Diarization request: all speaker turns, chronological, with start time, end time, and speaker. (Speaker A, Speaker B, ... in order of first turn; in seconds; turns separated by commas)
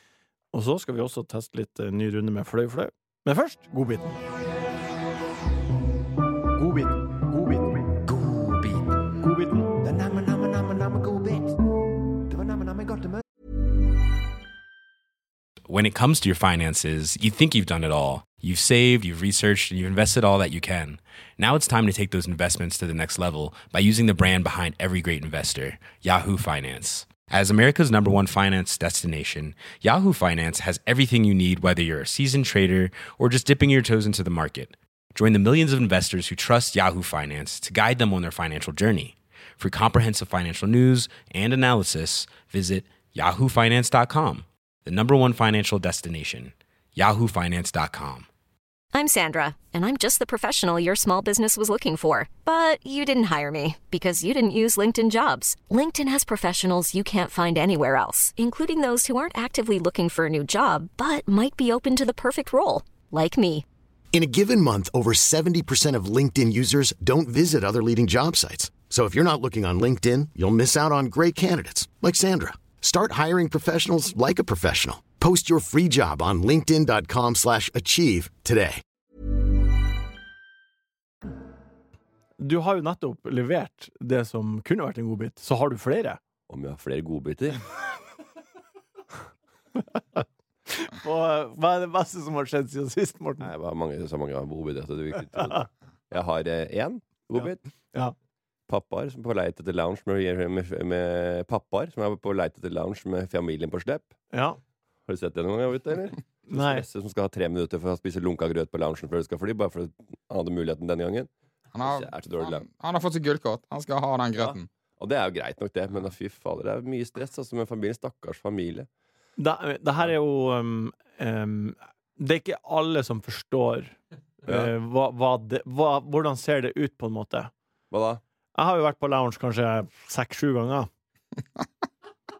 Speaker A: 0.5-4.1, Speaker A: 6.5-7.8, Speaker B: 8.2-8.6, Speaker A: 9.2-9.8, Speaker B: 9.8-11.5, Speaker B: 12.3-13.2, Speaker C: 15.7-48.3, Speaker D: 48.9-63.6, Speaker E: 64.1-78.8, Speaker A: 82.4-86.2, Speaker B: 86.5-87.6, Speaker A: 89.8-93.5, Speaker B: 93.4-97.6, Speaker A: 97.3-98.1, Speaker B: 98.7-104.1, Speaker A: 104.3-104.6, Speaker B: 105.1-111.3, Speaker A: 106.5-106.8, Speaker F: 111.7-114.7, Speaker B: 111.8-112.6, Speaker B: 114.4-118.9, Speaker A: 119.4-127.5, Speaker B: 124.5-124.7, Speaker B: 127.9-128.2, Speaker A: 128.5-130.9